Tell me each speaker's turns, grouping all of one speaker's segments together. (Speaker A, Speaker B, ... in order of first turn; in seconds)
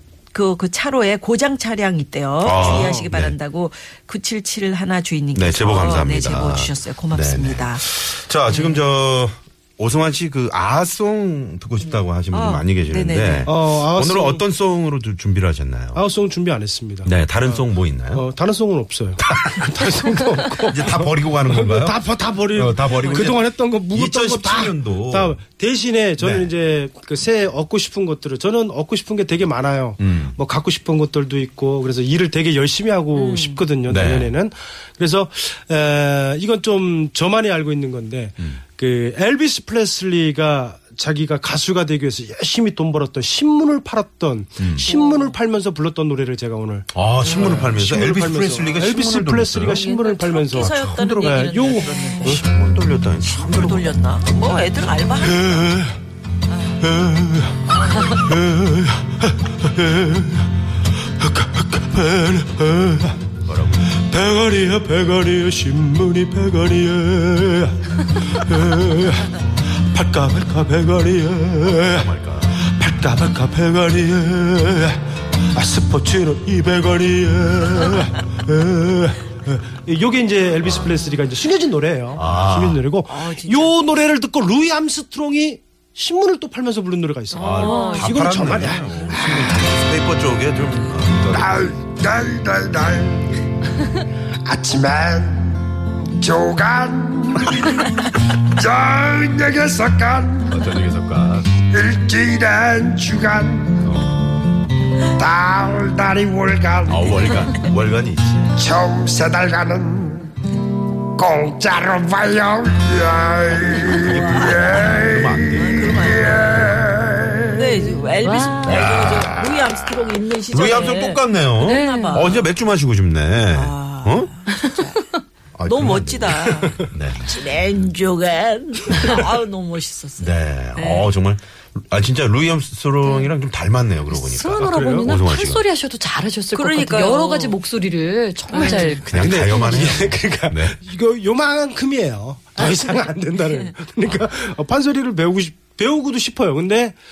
Speaker A: 0.3-7.8, 8.5-8.9, 11.8-13.5, 23.0-23.3, 33.1-33.6, 44.8-45.4, 47.2-47.7, 49.7-52.4, 53.2-55.8, 56.5-56.8, 57.7-58.2, 83.1-83.8, 87.3-88.2, 113.7-116.8, 117.4-122.5, 123.5-125.0, 125.7-131.1, 136.5-137.6, 138.5-139.0
Speaker B: 2.4-3.4, 5.3-16.0, 17.1-18.2, 19.2-25.4, 26.2-26.5, 30.0-30.4, 33.9-34.3, 44.6-44.9, 46.9-49.8, 50.5-53.9, 63.5-63.9, 71.6-72.6, 82.2-82.8, 87.4-91.8, 100.5-101.6, 103.8-104.1, 106.9-108.6, 113.8-116.9, 118.7-119.6, 120.5-124.3, 125.6-127.4, 128.9-129.2, 130.2-135.7, 139.1-140.8
Speaker C: 2.5-3.1, 13.4-14.4, 15.9-52.5, 55.2-56.0, 56.8-60.5, 61.2-63.2, 64.0-69.4, 69.9-72.0, 72.6-75.0, 75.5-89.6, 134.7-135.1, 138.6-147.0
Speaker D: 87.7-88.0, 118.2-118.9, 121.6-122.4, 134.1-139.9
Speaker E: 91.3-93.3, 94.5-97.7, 98.5-100.5, 101.7-103.8, 105.2-107.1, 108.6-110.3, 111.2-114.0